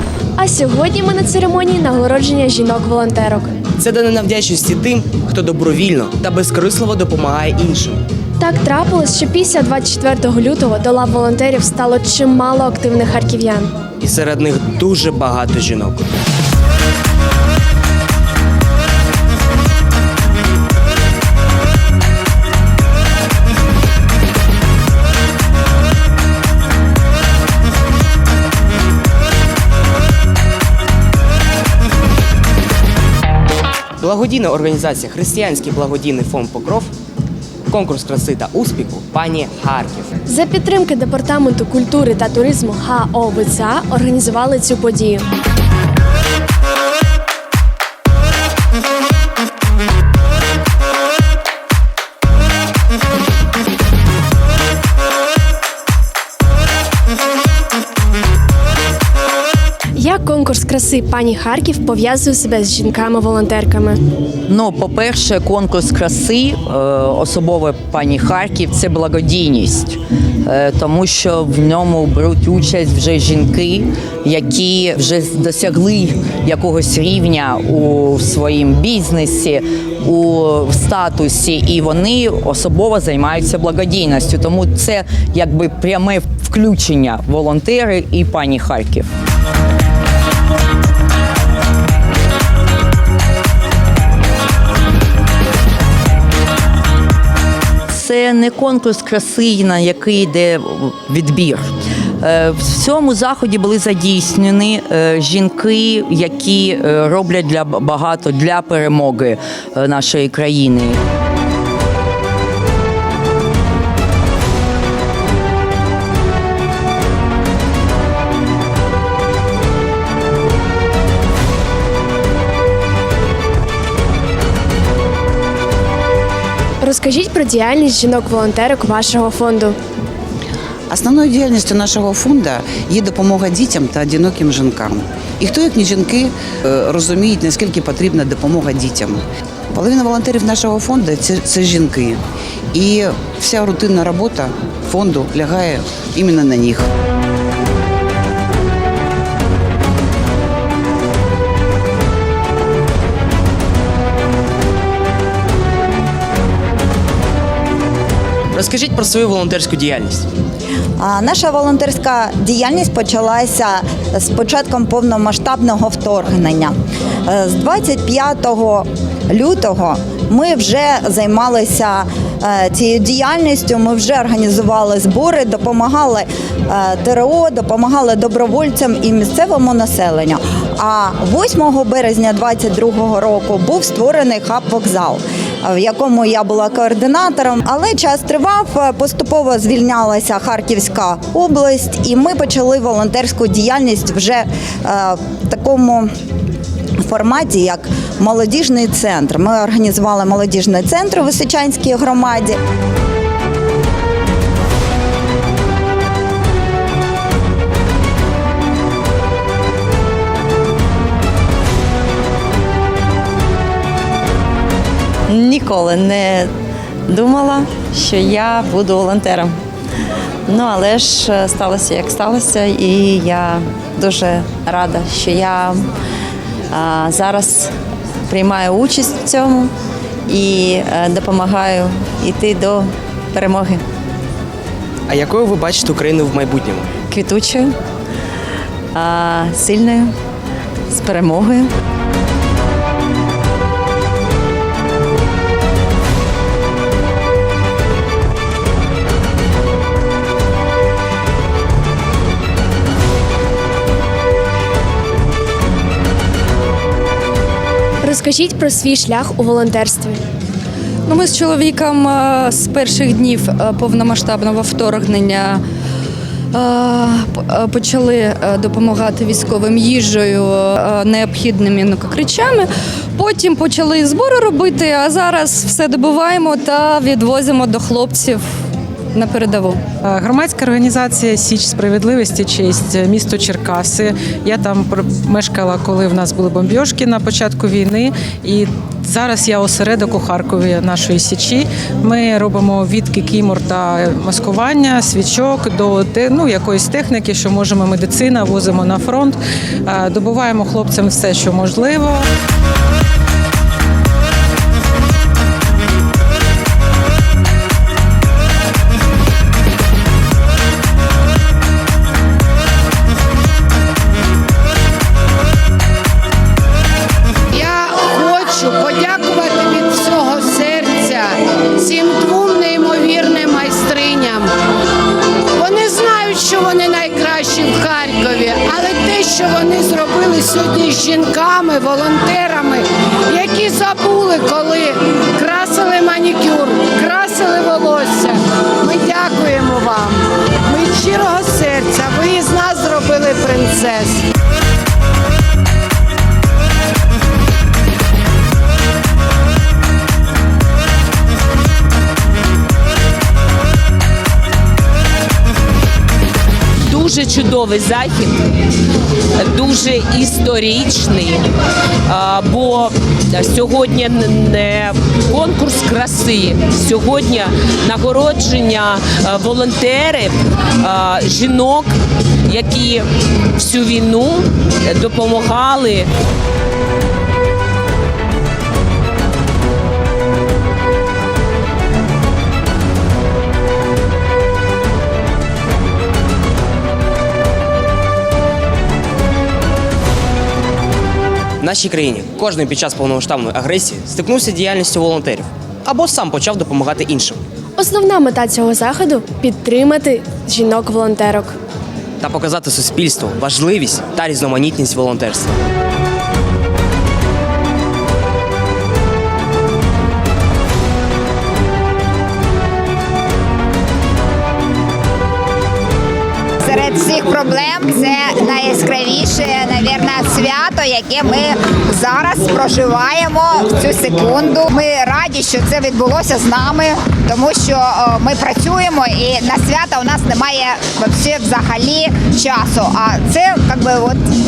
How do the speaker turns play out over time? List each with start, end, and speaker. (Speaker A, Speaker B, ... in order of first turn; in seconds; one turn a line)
Speaker A: 0.4-3.5
Speaker B: 3.8-8.0
Speaker A: 8.4-13.7
Speaker B: 14.0-16.1
Speaker B: 34.0-36.9
Speaker B: 37.7-40.1
Speaker A: 40.3-45.2
Speaker A: 60.0-64.0
Speaker C: 64.5-89.1
Speaker C: 97.9-111.0
Speaker A: 126.8-129.8
Speaker D: 130.9-139.2
Speaker D: 139.7-142.2
Speaker D: 142.7-146.9
Speaker B: 158.5-160.2
Speaker E: 161.0-166.7
Speaker E: 167.3-196.1
Speaker E: 197.0-202.6
Speaker F: 215.3-216.5
Speaker F: 217.1-219.6
Speaker F: 220.5-225.9
Speaker F: 226.7-227.7
Speaker F: 228.3-229.7
Speaker F: 230.3-233.8
Speaker B: 235.1-236.9
Speaker F: 237.1-237.7
Speaker F: 238.9-240.1
Speaker F: 240.9-241.7
Speaker A: 258.0-260.2
Speaker G: 261.1-265.6
Speaker G: 266.5-278.4
Speaker G: 279.1-279.8
Speaker H: 280.1-302.2
Speaker I: 317.5-324.5
Speaker I: 325.5-344.2
Speaker J: 356.9-358.3
Speaker J: 359.4-361.4
Speaker J: 362.1-371.9
Speaker J: 372.4-373.1
Speaker J: 373.6-376.1
Speaker B: 391.6-397.4
Speaker A: 397.8-401.5
Speaker B: 402.2-405.5
Speaker K: 416.6-434.2